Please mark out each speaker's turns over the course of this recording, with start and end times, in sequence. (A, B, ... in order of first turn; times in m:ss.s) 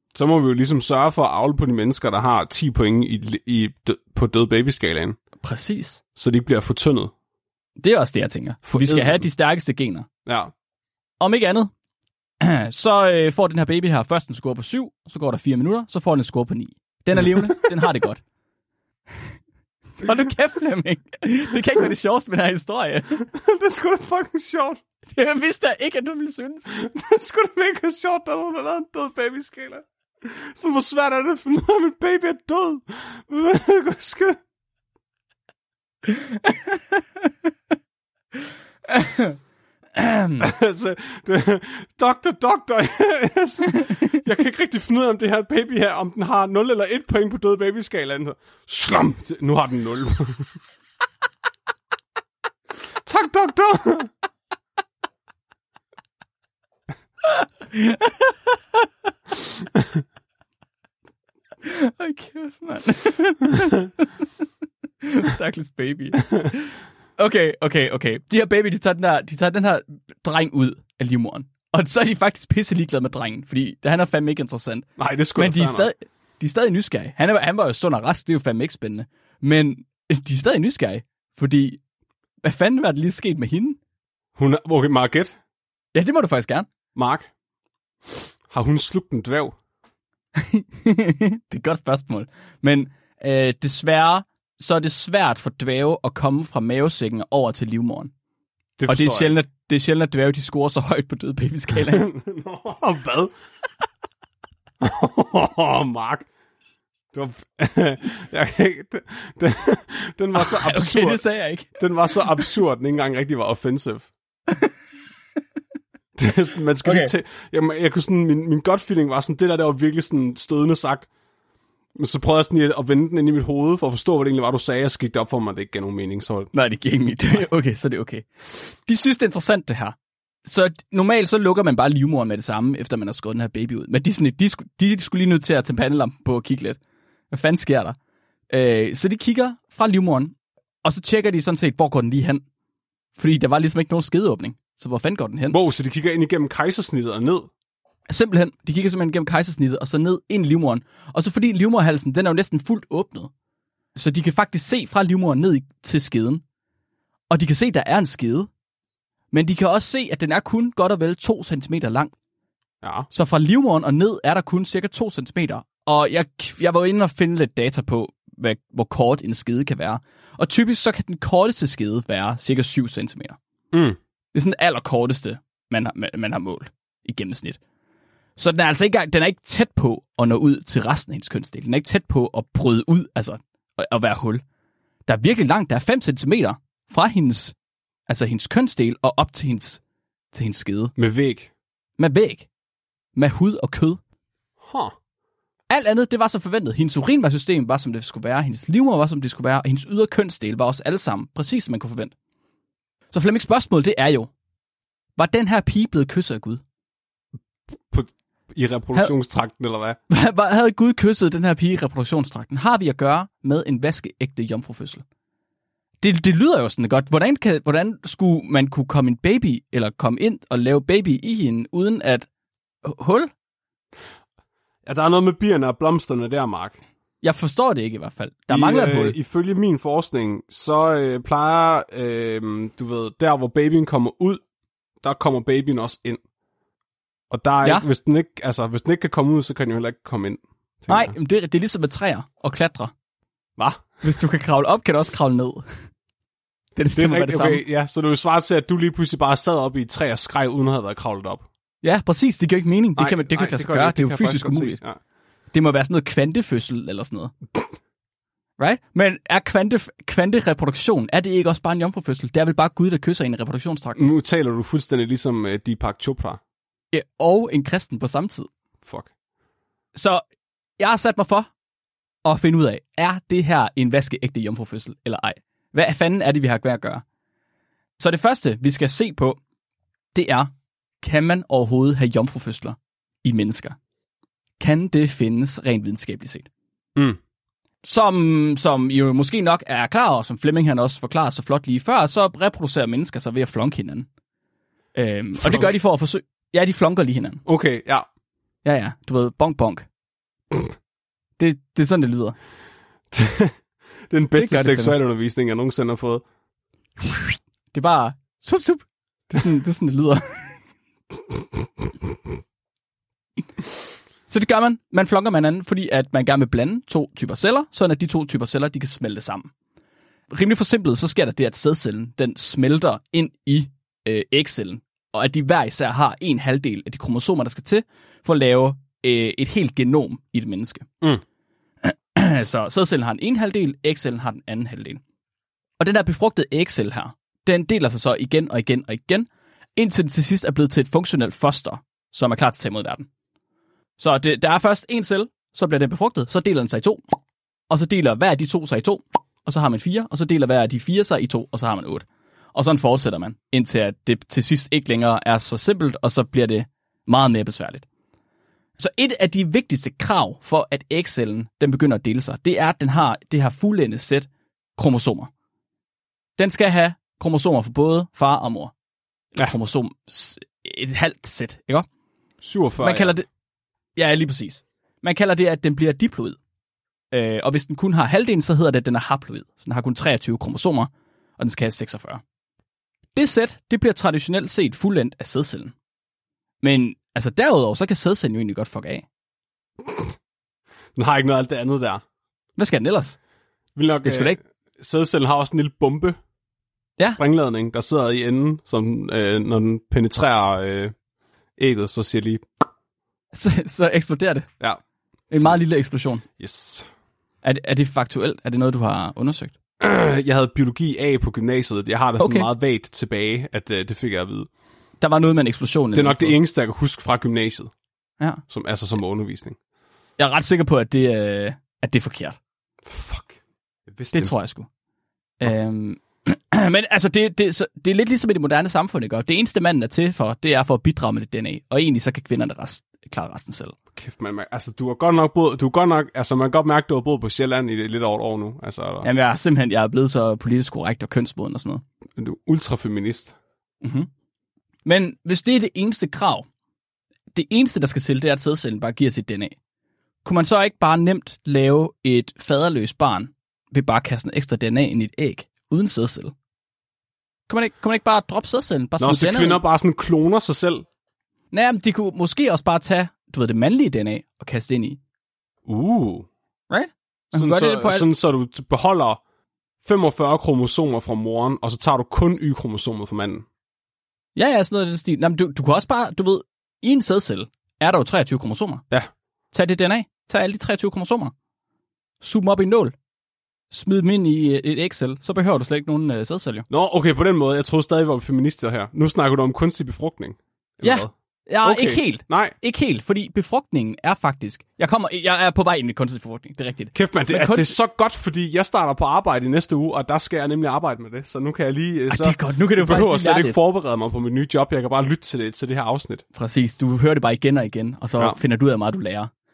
0:00.2-0:05.2 A
0:05.4-0:06.0 B
0:06.2-0:07.1 A
0:07.8-0:10.1 B
0:08.7-0:09.2 A
0:10.3-0:10.5 A
0:11.2-0:11.7 B
0:12.4-0:18.2 B
0:20.0-0:23.2 B
0:23.3-0:24.8 A
0:25.1-0:26.8 B
0:26.7-0:34.4 A
0:36.1-0:36.9 B
0:38.9-0:39.4 B
0:40.0-0:40.5 B
0:40.4-0:50.5 A
0:53.0-0:54.1 A
0:57.2-0:58.6 B
1:01.6-1:04.2 B
1:05.0-1:21.8 B
1:15.0-1:15.9 A
1:22.4-1:23.8 B
1:24.4-1:25.4 A
1:25.9-1:26.7 B
1:27.0-1:27.3 A
1:28.5-1:29.6 A
1:30.4-1:38.1 B
1:38.8-1:39.4 A
1:38.9-1:42.1 B
1:41.9-1:43.3 A
1:44.8-1:46.3 A
1:47.1-1:51.2 A
1:50.4-1:52.5 B
1:51.8-1:54.1 A
1:56.2-2:01.1 A
1:56.8-1:57.1 B
2:02.0-2:06.5 A
2:06.5-2:16.8 B
2:17.3-2:18.0 B
2:18.5-2:22.4 B
2:23.2-2:25.6 B
2:25.5-2:27.5 A
2:28.1-2:33.3 B
2:34.0-2:36.4 B
2:37.3-2:38.5 B
2:39.3-2:42.1 B
2:42.8-2:43.1 A
2:43.1-2:53.4 B
2:53.7-2:54.0 A
2:54.3-2:57.6 B
2:58.4-3:04.4 B
3:05.1-3:07.6 B
3:08.1-3:09.8 B
3:10.3-3:10.9 B
3:11.0-3:11.5 A
3:12.0-3:12.5 B
3:13.2-3:14.0 B
3:14.6-3:14.9 A
3:15.7-3:22.1 B
3:23.1-3:24.3 B
3:25.2-3:26.6 B
3:27.9-3:30.0 A
3:30.1-3:35.0 B
3:36.0-3:42.3 B
3:42.8-3:43.3 B
3:44.8-3:46.8 A
3:47.2-3:49.2 B
3:48.5-3:54.4 A
3:55.0-3:56.2 A
3:57.3-4:01.2 A
4:00.9-4:02.9 B
4:03.6-4:04.0 A
4:04.0-4:05.7 B
4:06.8-4:07.6 B
4:07.0-4:11.4 A
4:11.8-4:14.8 B
4:13.0-4:15.0 A
4:15.5-4:17.3 B
4:18.6-4:24.0 B
4:24.0-4:26.4 A
4:26.9-4:28.5 B
4:30.0-4:30.2 B
4:30.8-4:31.5 B
4:32.2-4:37.0 B
4:38.0-4:39.4 B
4:40.1-4:43.8 B
4:44.6-4:46.5 B
4:47.8-4:54.1 B
4:55.0-4:57.4 B
4:55.4-4:55.7 A
4:57.5-4:58.1 A
4:58.6-4:59.9 B
5:01.4-5:02.4 B
5:03.1-5:03.6 A
5:04.1-5:06.2 A
5:04.4-5:05.0 B
5:07.7-5:10.6 B
5:14.3-5:19.5 B
5:20.3-5:30.9 B
5:31.8-5:35.0 B
5:35.8-5:43.1 B
5:44.0-5:47.0 B
5:47.7-5:57.9 B
5:58.8-6:05.3 B
6:06.4-6:08.7 B
6:09.4-6:11.9 B
6:12.4-6:13.2 A
6:12.8-6:13.3 B
6:14.0-6:16.4 B
6:17.1-6:22.2 B
6:23.2-6:25.7 B
6:26.6-6:29.0 B
6:31.0-6:32.0 A
6:32.6-6:33.2 B
6:33.8-6:36.2 A
6:34.0-6:34.4 B
6:37.2-6:40.9 A
6:41.6-6:42.4 A
6:43.3-6:44.5 B
6:45.3-6:46.2 B
6:46.4-6:46.9 A
6:47.4-6:49.6 B
6:49.8-6:54.5 A
6:52.2-6:52.5 B
6:55.0-6:56.4 B
6:55.9-6:57.7 A
6:58.5-6:59.6 A
7:00.2-7:02.4 B
7:02.8-7:04.3 A
7:04.1-7:04.7 B
7:05.4-7:13.8 B
7:14.0-7:19.1 A
7:19.0-7:21.8 B
7:22.2-7:23.4 A
7:23.8-7:24.1 B
7:24.8-7:26.5 B
7:27.3-7:29.6 B
7:30.2-7:36.3 B
7:37.5-7:39.6 B
7:39.0-7:40.8 A
7:41.5-7:45.0 B
7:45.7-7:46.3 A
7:46.7-7:48.1 B
7:47.3-7:49.2 A
7:49.8-7:53.4 A
7:54.4-7:58.8 B
7:59.5-8:01.3 B
8:02.2-8:03.0 B
8:03.7-8:06.7 B
8:06.7-8:11.1 A
8:10.8-8:17.8 B
8:11.6-8:12.6 A
8:16.9-8:26.2 A
8:22.1-8:23.6 B
8:26.3-8:29.3 B